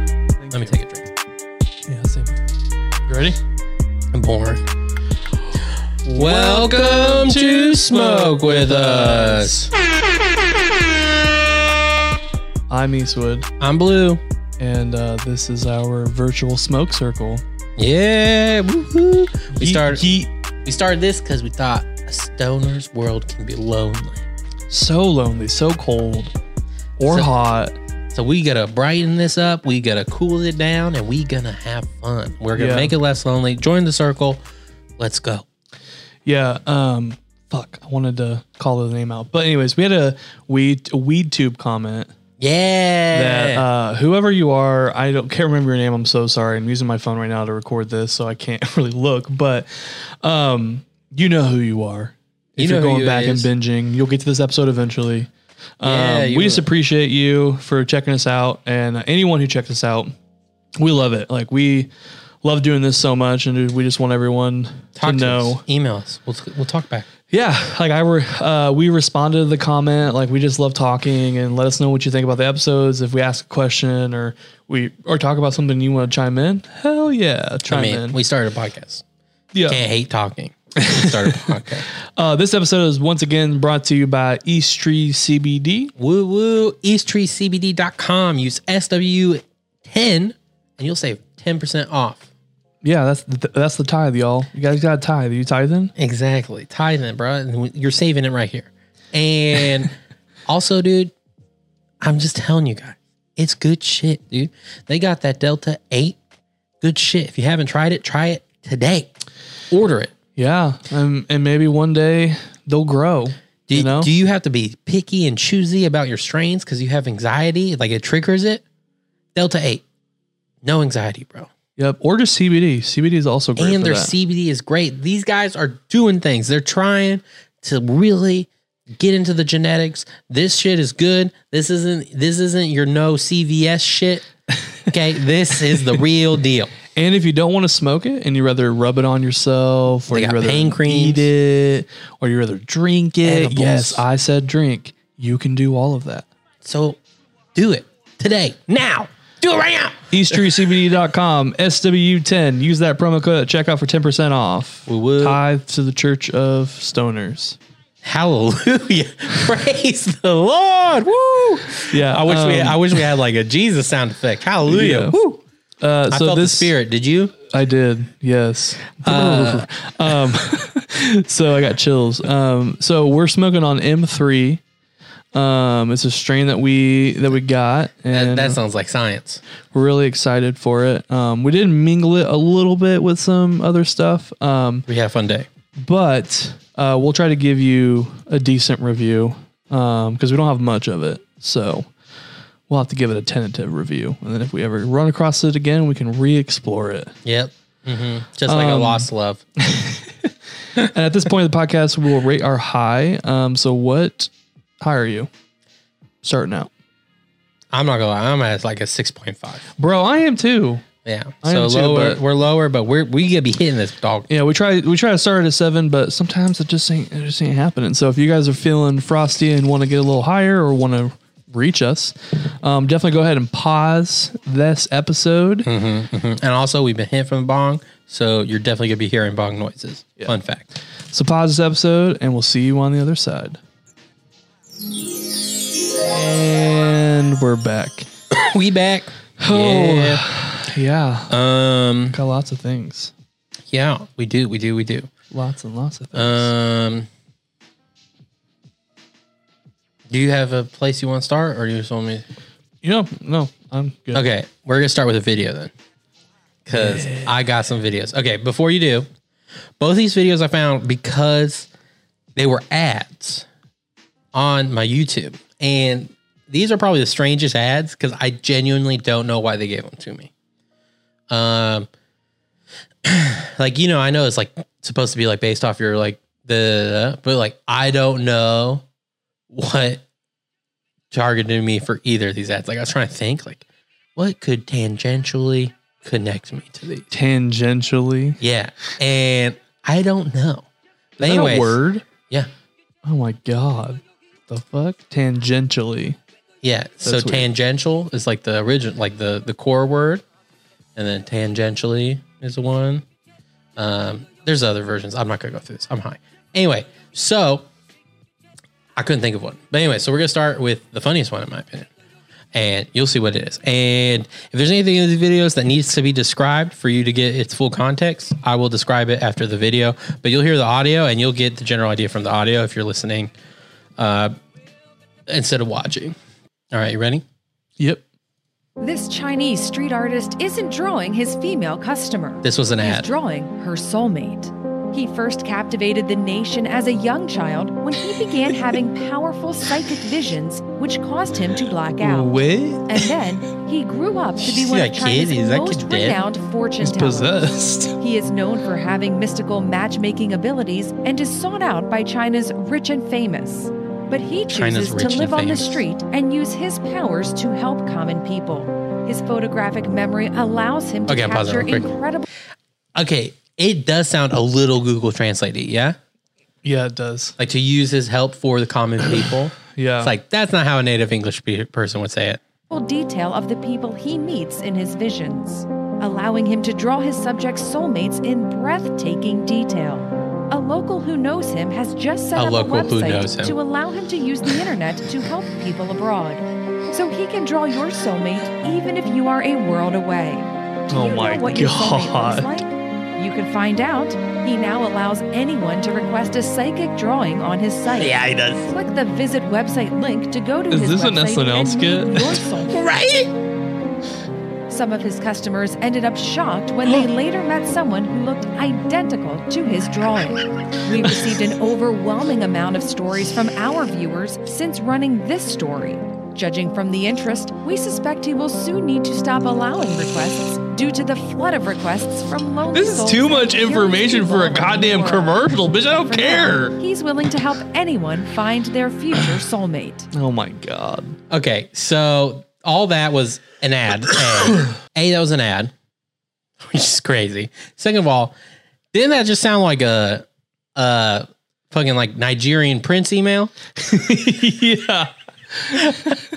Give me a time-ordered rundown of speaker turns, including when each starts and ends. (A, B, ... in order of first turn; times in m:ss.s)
0:00.4-0:00.8 A
0:00.5-0:01.1 B
0:01.9-0:02.4 A
0:03.1-0:03.4 A
0:04.1-0:04.6 B
0:06.0-0:09.7 A
0:06.1-0:09.7 B
0:12.7-0:13.5 A
0:13.6-0:14.2 B
0:14.6-0:17.4 A
0:17.8-0:20.0 B
0:19.5-0:20.3 A
0:20.6-0:24.2 B
0:24.7-0:26.3 A
0:27.0-0:27.8 A
0:27.0-0:27.3 B
0:28.1-0:34.4 B
0:32.6-0:32.9 A
0:35.0-0:35.4 B
0:36.2-0:42.1 A
0:42.4-0:43.6 B
0:43.1-0:55.3 A
0:52.6-0:53.5 B
0:55.8-1:00.1 A
0:55.8-0:56.7 B
1:00.8-1:01.9 A
1:02.4-1:05.6 A
1:05.0-1:07.1 B
1:07.3-1:18.2 A
1:17.7-1:19.0 B
1:19.5-1:19.8 A
1:19.7-1:21.8 B
1:20.8-1:25.9 A
1:26.0-1:32.3 B
1:32.8-1:35.9 A
1:36.0-1:39.9 B
1:40.4-1:41.1 B
1:42.0-1:46.2 B
1:46.8-1:49.1 B
1:49.7-1:50.1 B
1:50.4-1:54.1 A
1:53.7-1:58.6 B
1:59.3-1:59.8 B
2:00.6-2:01.5 B
2:01.8-2:04.1 A
2:03.6-2:14.2 B
2:14.8-2:16.7 B
2:16.9-2:26.3 A
2:20.1-2:21.3 B
2:23.2-2:24.0 B
2:26.6-2:27.0 B
2:27.5-2:30.4 B
2:30.1-2:37.6 A
2:34.9-2:35.4 B
2:38.0-2:45.2 B
2:41.9-2:43.0 A
2:44.7-2:46.7 A
2:46.1-2:47.3 B
2:47.5-2:54.6 A
2:49.0-2:50.2 B
2:55.3-2:58.6 A
2:58.1-2:59.4 B
2:59.7-3:04.8 A
3:04.9-3:05.5 B
3:05.8-3:11.9 A
3:12.7-3:17.1 A
3:17.2-3:19.4 B
3:18.5-3:19.1 A
3:19.6-3:25.3 A
3:26.2-3:26.7 A
3:27.7-3:29.7 B
3:29.8-3:30.8 A
3:31.0-3:34.3 B
3:31.4-3:32.2 A
3:34.3-3:45.7 A
3:45.6-3:50.6 B
3:51.1-3:53.6 A
3:56.0-3:58.1 A
3:58.3-4:00.2 B
3:59.4-4:01.3 A
4:01.3-4:02.2 B
4:02.1-4:03.1 A
4:03.7-4:05.1 B
4:05.3-4:06.5 A
4:06.1-4:07.1 B
4:10.1-4:12.2 B
4:12.8-4:14.2 A
4:14.1-4:15.7 B
4:16.6-4:19.1 B
4:16.7-4:17.3 A
4:19.8-4:21.7 B
4:22.4-4:23.4 B
4:24.3-4:30.3 B
4:31.3-4:31.9 B
4:33.0-4:38.8 B
4:39.5-4:40.0 B
4:41.1-4:43.6 B
4:44.2-4:47.1 B
4:47.1-4:48.4 A
4:48.4-4:50.7 B
4:51.2-4:52.5 B
4:51.2-4:52.0 A
4:53.0-4:56.2 A
4:56.6-5:00.2 B
4:57.0-4:57.5 A
5:00.9-5:03.0 B
5:03.8-5:07.7 B
5:09.0-5:11.9 B
5:12.5-5:23.3 B
5:24.0-5:24.4 B
5:25.3-5:26.1 B
5:26.7-5:27.2 B
5:27.8-5:28.0 A
5:28.8-5:47.4 C
5:32.4-5:33.1 B
5:42.0-5:43.1 A
5:44.4-5:46.2 B
5:46.8-5:48.0 A
5:48.0-6:02.3 C
5:54.5-5:55.8 B
6:01.1-6:01.9 B
6:02.9-6:06.0 B
6:06.6-6:07.4 A
6:07.4-6:12.4 B
6:09.7-6:10.1 A
6:12.7-6:42.9 C
6:22.3-6:23.5 B
6:30.9-6:32.6 A
6:38.0-6:38.7 B
6:40.7-6:42.3 A
6:42.7-6:43.3 B
6:44.7-7:05.5 C
7:02.7-7:06.7 A
7:06.0-7:10.1 C
7:10.1-7:11.2 A
7:11.3-7:15.7 B
7:16.6-7:18.3 B
7:18.9-7:23.5 B
7:23.8-7:26.2 A